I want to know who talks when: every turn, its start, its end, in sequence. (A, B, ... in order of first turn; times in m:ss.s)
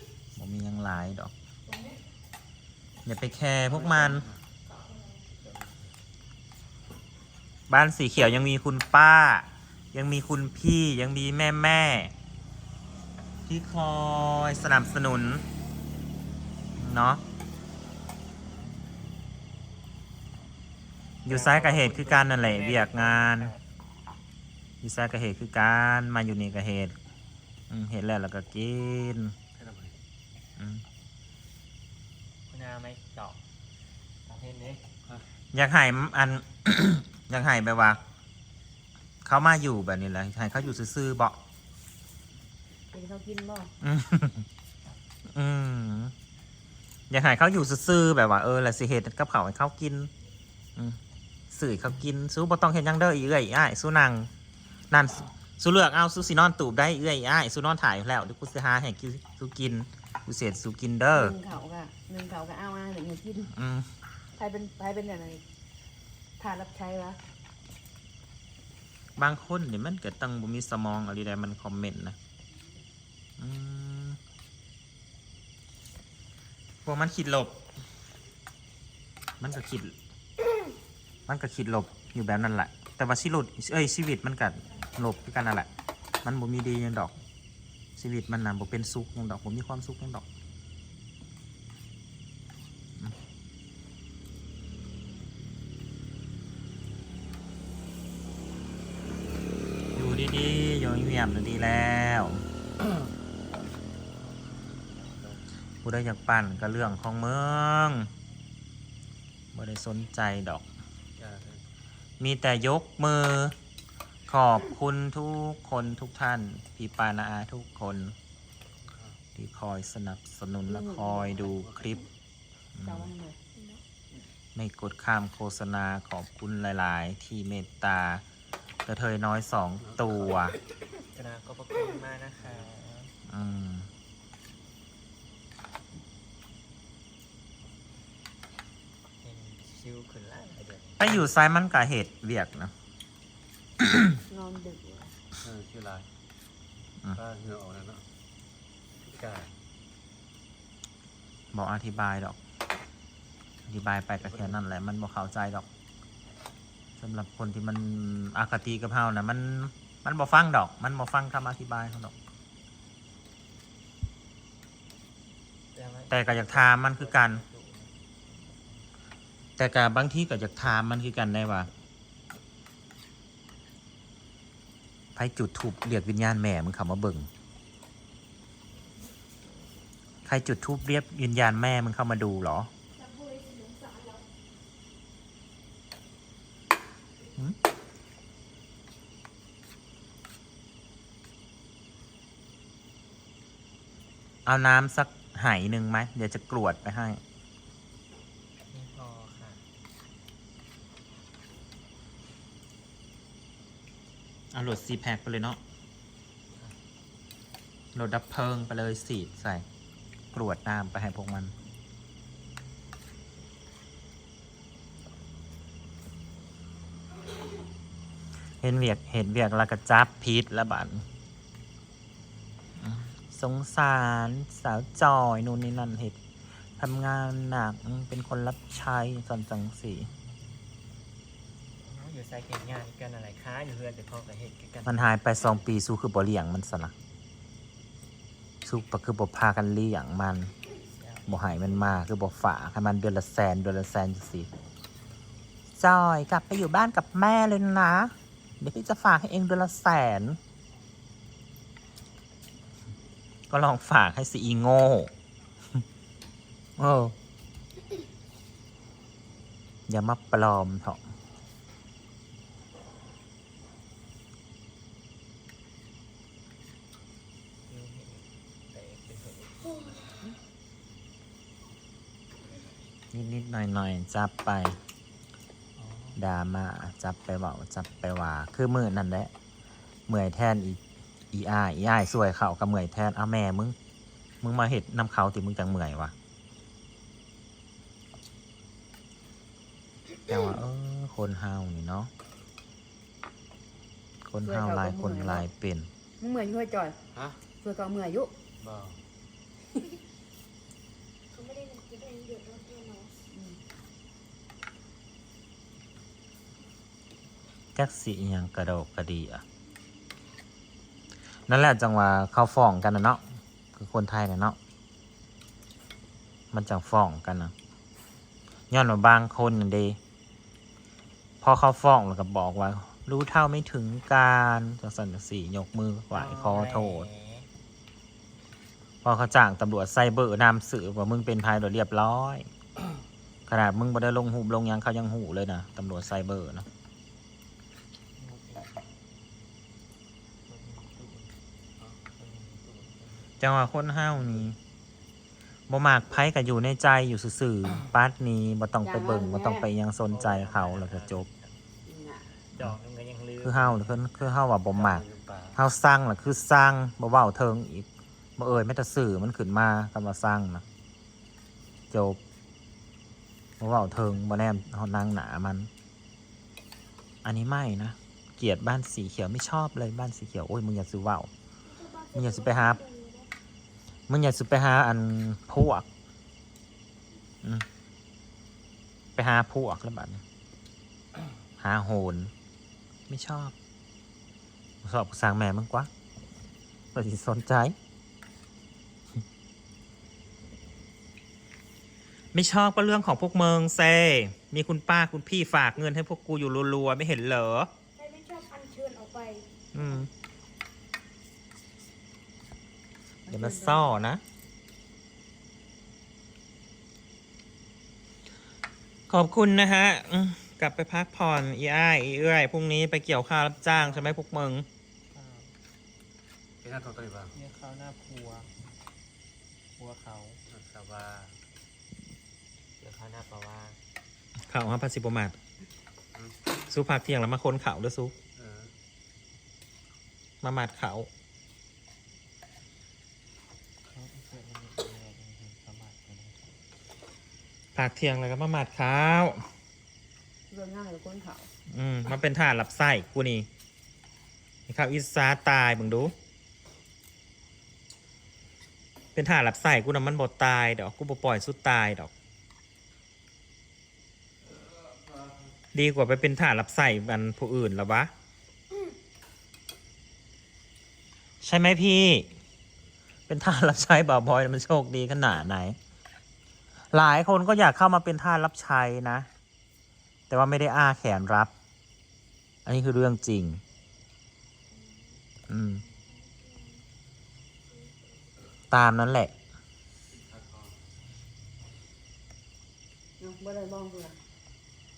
0:00.4-0:01.3 A
0:01.7-0:02.0 B
0:03.0-0:04.3 A
0:03.8-0:04.2 C
0:04.7-0:05.2 B
0:07.7-0:12.1 A
0:13.5-0:15.4 A
0:16.8-0:17.2 A
0:21.2-0:23.5 A
0:21.2-0:23.6 D
0:24.8-0:27.0 A
0:27.7-0:29.3 A
0:29.6-0:29.9 C
0:30.6-0:30.8 A
0:32.5-0:33.4 D
0:34.3-0:34.8 D
0:35.5-0:38.0 A
0:39.2-0:41.4 A
0:42.9-0:43.7 E
0:43.8-0:44.4 A
0:45.3-0:46.1 A
0:47.1-0:50.1 A
0:51.5-0:54.3 A
0:54.9-1:01.4 A
1:01.1-1:03.5 E
1:03.5-1:03.9 A
1:04.4-1:05.4 E
1:06.4-1:07.2 E
1:09.2-1:12.2 A
1:13.4-1:14.2 A
1:16.8-1:17.6 A
1:19.4-1:19.9 A
1:21.3-1:25.7 A
1:26.2-1:27.2 A
1:28.0-1:30.2 A
1:40.0-1:42.4 A
1:45.8-1:48.1 A
1:49.5-1:50.6 A
1:51.2-1:51.6 C
1:52.2-1:53.5 A
1:54.3-1:58.2 A
1:59.4-2:02.0 A
2:00.7-2:01.3 E
2:02.8-2:03.1 A
2:02.8-2:03.4 E
2:04.6-2:08.2 A
2:08.9-2:10.6 A
2:11.1-2:13.1 D
2:13.3-2:13.9 A
2:19.2-2:21.3 D
2:21.0-2:22.7 A
2:24.3-2:25.1 E
2:25.4-2:26.0 C
2:27.2-2:28.0 C
2:29.1-2:29.5 C
2:31.5-2:32.4 A
2:33.7-2:35.7 A
2:37.0-2:42.1 A
2:45.7-2:48.0 D
2:46.1-2:47.4 A
2:49.6-2:51.7 A
2:55.2-2:57.3 A
3:00.2-3:02.7 A
3:03.0-3:04.2 B
3:14.5-3:17.2 A
3:18.7-3:19.6 D
3:24.5-3:25.6 A
3:27.9-3:29.6 A
3:30.3-3:31.5 A
3:38.6-3:41.0 A
3:42.8-3:46.2 A
3:46.8-3:50.1 A
3:51.8-3:55.2 D
3:54.9-3:56.9 A
3:58.6-4:00.5 A
4:00.9-4:02.1 D
4:01.3-4:04.5 A
4:05.8-4:10.4 A
4:13.5-4:15.1 A
4:16.8-4:17.2 A
4:19.9-4:21.0 A
4:27.7-4:30.1 D
4:33.1-4:34.8 A
4:35.8-4:36.2 D
4:36.2-4:39.3 A
4:40.1-4:40.8 A
4:41.3-4:43.8 A
4:44.4-4:46.1 A
4:50.3-4:52.1 A
4:54.3-4:55.9 A
4:54.4-4:55.5 E
4:56.2-4:57.0 E
4:57.5-4:58.3 E
5:01.3-5:03.2 B
5:03.3-5:03.6 E
5:07.8-5:09.4 A
5:11.5-5:13.2 A
5:13.7-5:14.6 A
5:16.5-5:17.5 A
5:18.7-5:20.0 A
5:21.4-5:27.1 A
5:26.1-5:27.5 D
5:29.0-5:32.5 A
5:33.5-5:36.7 A
5:38.2-5:38.9 D
5:40.5-5:41.4 D
5:42.0-5:43.3 D
5:43.4-5:44.6 A
5:45.7-5:51.3 A
5:48.8-5:49.7 E
5:50.1-5:51.6 D
5:51.8-5:52.3 E
5:52.5-5:54.1 D
5:53.4-5:55.0 A
5:55.2-5:55.5 C
5:55.6-6:00.6 A
6:01.9-6:02.2 A
6:03.6-6:05.7 A
6:07.2-6:11.3 A
6:11.7-6:13.3 B
6:12.1-6:12.9 A
6:14.1-6:15.9 A
6:19.2-6:20.2 A
6:21.6-6:22.3 A
6:23.1-6:23.6 A
6:24.8-6:25.9 A
6:26.9-6:27.8 A
6:32.3-6:37.7 A
6:38.0-6:39.5 B
6:39.7-6:40.1 A
6:43.3-6:44.0 E
6:43.3-6:44.2 A
6:49.1-6:54.7 A
6:53.6-6:54.2 D
6:55.1-6:55.6 D
6:56.6-6:57.3 C
6:57.4-6:58.5 D
6:59.8-7:00.4 D
7:00.5-7:01.3 C
7:02.8-7:03.8 D
7:04.5-7:05.4 A
7:06.7-7:08.2 A
7:10.4-7:11.1 A
7:13.9-7:16.6 D
7:17.8-7:19.4 A
7:20.5-7:21.5 E
7:21.7-7:23.5 A
7:24.7-7:26.1 A
7:29.2-7:32.1 A
7:35.7-7:38.1 A
7:41.4-7:42.3 A
7:43.3-7:45.8 A
7:46.9-7:49.3 A
7:50.3-7:51.5 A
7:52.7-7:53.6 A
7:55.5-7:55.8 A
7:58.7-7:59.3 A
8:03.2-8:04.2 E